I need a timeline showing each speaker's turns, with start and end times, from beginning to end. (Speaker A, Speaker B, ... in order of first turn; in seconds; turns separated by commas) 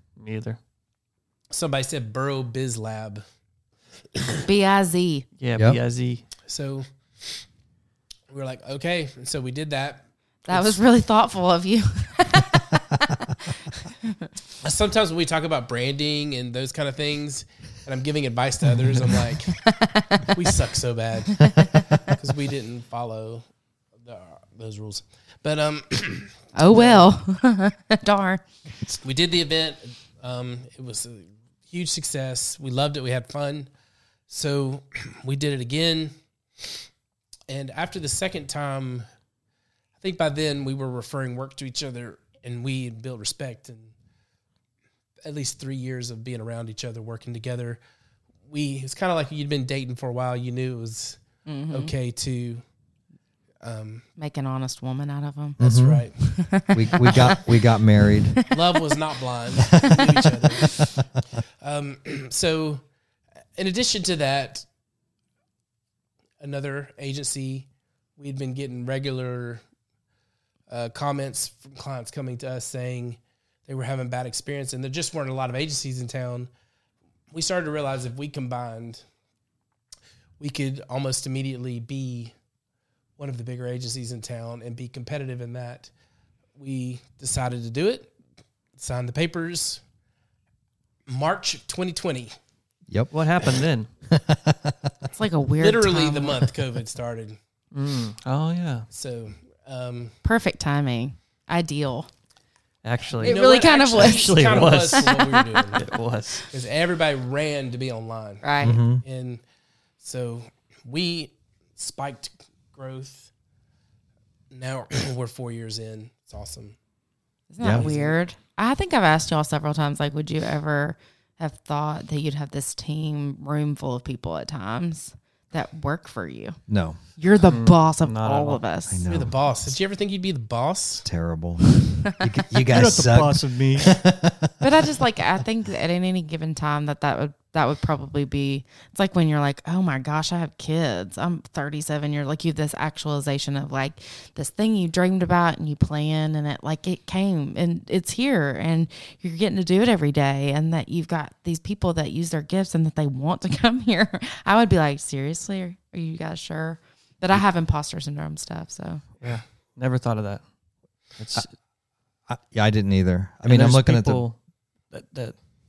Speaker A: 0.2-0.6, Speaker B: 1.5-3.2, Speaker C: 4.4-5.2, Speaker A: 5.4-6.2, Speaker B: 6.5-7.4, Speaker B: 8.3-10.8, Speaker C: 10.4-14.3, Speaker B: 14.6-19.6, Speaker C: 19.5-20.4, Speaker B: 20.2-23.4, Speaker C: 21.4-22.1, Speaker B: 24.0-27.1, Speaker C: 26.5-28.4, Speaker B: 29.0-33.7, Speaker B: 34.3-36.1, Speaker B: 37.5-39.0, Speaker B: 40.0-43.9, Speaker B: 45.2-47.8, Speaker B: 48.5-52.6, Speaker C: 51.5-51.9, Speaker B: 53.6-54.0, Speaker C: 54.2-55.6, Speaker D: 55.6-56.1, Speaker B: 55.6-56.1, Speaker C: 56.2-57.6, Speaker D: 56.7-58.4, Speaker C: 58.3-58.8, Speaker B: 58.5-60.9, Speaker D: 59.6-60.1, Speaker B: 61.6-62.8, Speaker B: 63.5-64.7, Speaker B: 66.4-69.6, Speaker B: 70.7-76.5, Speaker B: 77.3-79.0, Speaker B: 80.4-82.3, Speaker B: 83.2-85.9, Speaker B: 86.5-88.1, Speaker B: 88.8-89.8, Speaker B: 91.1-92.3, Speaker A: 93.1-93.9, Speaker D: 94.1-94.9, Speaker C: 95.1-96.5, Speaker B: 95.6-97.4, Speaker A: 97.7-98.9, Speaker B: 98.9-100.1, Speaker C: 100.2-102.1, Speaker A: 102.8-105.2, Speaker B: 103.2-105.9, Speaker C: 103.2-106.4, Speaker A: 105.7-106.4, Speaker B: 106.5-109.4, Speaker C: 108.4-108.8, Speaker D: 108.6-109.0, Speaker B: 110.0-113.3, Speaker B: 114.5-116.8, Speaker C: 117.5-126.6, Speaker D: 117.6-117.9, Speaker B: 117.6-118.2, Speaker D: 126.7-127.0, Speaker C: 127.2-129.0, Speaker A: 127.4-128.6, Speaker D: 128.9-129.3, Speaker B: 129.0-131.1, Speaker D: 131.0-134.5, Speaker A: 132.6-133.9, Speaker C: 134.6-159.0, Speaker A: 159.2-160.4, Speaker A: 161.2-161.5, Speaker D: 162.3-164.2, Speaker A: 163.4-164.4, Speaker A: 164.9-165.3